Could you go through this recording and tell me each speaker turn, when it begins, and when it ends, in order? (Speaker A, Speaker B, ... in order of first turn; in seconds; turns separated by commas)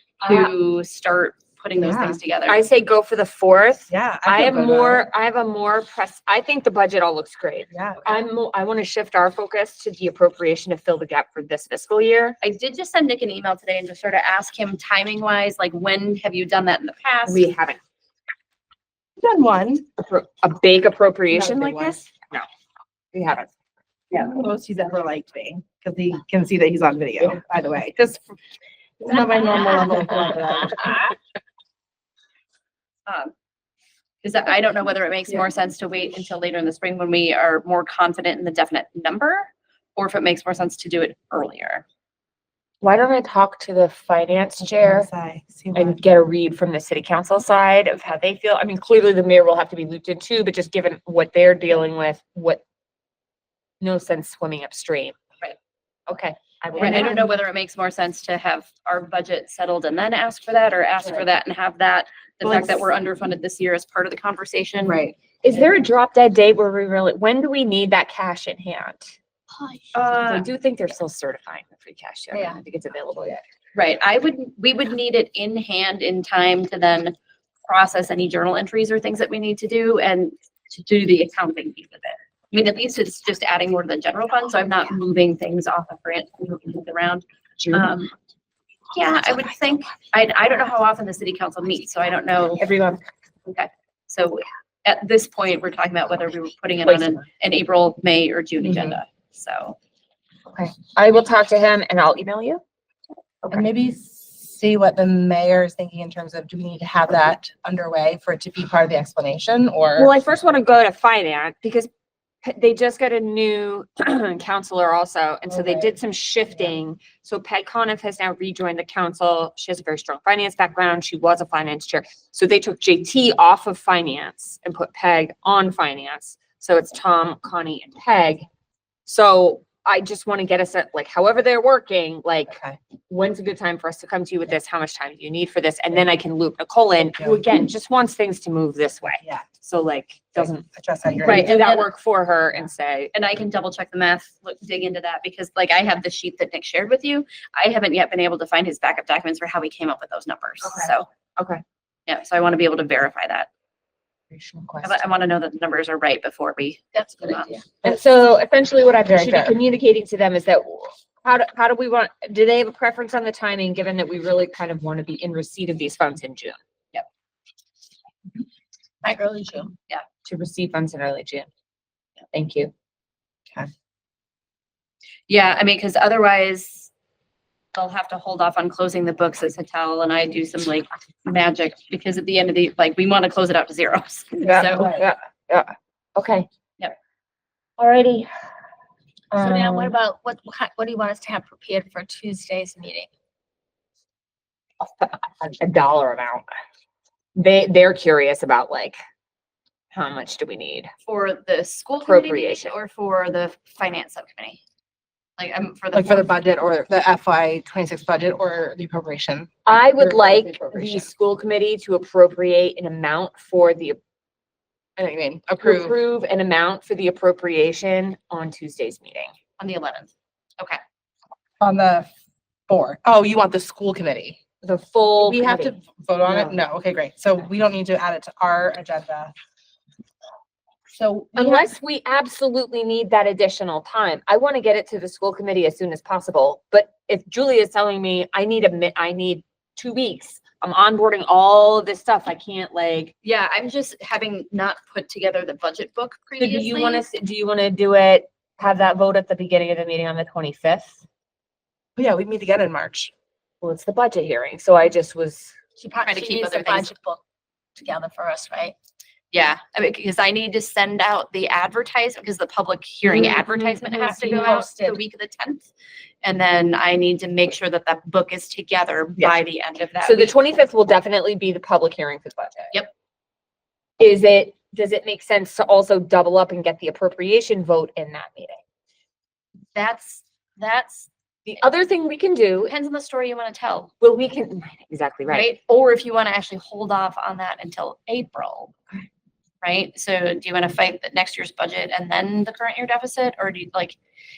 Speaker A: 0.2-0.5, Speaker B: 0.2-2.6, Speaker C: 1.8-2.2, Speaker A: 2.5-12.4, Speaker C: 3.9-5.1, Speaker C: 7.7-8.2, Speaker B: 12.4-17.5, Speaker A: 17.3-17.8, Speaker C: 19.2-19.9, Speaker A: 20.0-22.5, Speaker C: 21.3-22.0, Speaker A: 23.1-23.5, Speaker C: 24.1-28.4, Speaker C: 29.0-31.0, Speaker D: 29.6-29.9, Speaker B: 33.1-33.3, Speaker B: 34.2-41.8, Speaker A: 42.8-45.1, Speaker C: 44.7-46.0, Speaker A: 45.7-52.6, Speaker A: 53.8-55.2, Speaker A: 56.1-57.3, Speaker B: 56.8-65.0, Speaker A: 62.5-62.8, Speaker C: 64.8-65.2, Speaker A: 65.4-69.1, Speaker B: 69.9-70.5, Speaker A: 70.2-73.4, Speaker D: 72.3-72.6, Speaker B: 73.7-88.1, Speaker A: 87.6-87.9, Speaker B: 88.9-92.6, Speaker A: 92.6-93.0, Speaker B: 93.5-99.8, Speaker A: 96.9-97.2, Speaker A: 98.7-98.9, Speaker A: 100.5-102.6, Speaker C: 103.5-110.1, Speaker A: 110.0-111.9, Speaker A: 112.4-128.4, Speaker C: 115.5-115.9, Speaker A: 129.1-132.6, Speaker C: 132.5-132.8, Speaker A: 133.1-140.7, Speaker C: 139.2-139.5, Speaker C: 140.4-141.5, Speaker A: 141.2-143.1, Speaker B: 141.2-141.9, Speaker B: 143.1-151.1, Speaker A: 150.7-151.6, Speaker B: 152.1-153.5, Speaker A: 154.3-155.0, Speaker B: 154.8-157.6, Speaker D: 156.9-157.6, Speaker A: 157.8-166.6, Speaker C: 159.1-159.6, Speaker D: 169.0-169.7, Speaker A: 170.2-171.5, Speaker A: 172.3-172.7, Speaker B: 175.3-176.9, Speaker B: 177.7-184.9, Speaker A: 184.4-186.5, Speaker C: 184.8-185.1, Speaker A: 187.8-188.3, Speaker A: 189.3-190.0, Speaker D: 189.4-193.1, Speaker A: 194.8-196.5, Speaker A: 197.4-199.0, Speaker A: 199.9-200.9, Speaker B: 201.1-204.6, Speaker A: 202.0-202.8, Speaker B: 205.4-206.3, Speaker C: 205.9-211.1, Speaker A: 209.7-214.0, Speaker C: 215.0-215.9, Speaker A: 215.6-219.3, Speaker B: 219.6-220.8, Speaker C: 221.6-222.1, Speaker C: 222.7-224.4, Speaker A: 224.6-226.6, Speaker C: 225.1-229.3, Speaker C: 230.9-231.7, Speaker A: 231.4-243.1, Speaker B: 243.2-247.1, Speaker A: 246.4-251.0, Speaker C: 252.0-253.1, Speaker A: 253.6-255.5, Speaker D: 255.8-257.2, Speaker B: 256.0-256.9, Speaker D: 257.8-258.8, Speaker B: 259.3-265.7, Speaker A: 263.3-263.8, Speaker D: 263.8-265.0, Speaker B: 266.2-270.4, Speaker A: 270.0-272.8, Speaker A: 274.0-278.6, Speaker B: 279.8-281.1, Speaker A: 281.5-282.7, Speaker B: 282.6-283.9, Speaker A: 284.0-285.5, Speaker B: 285.3-288.8, Speaker B: 289.6-294.0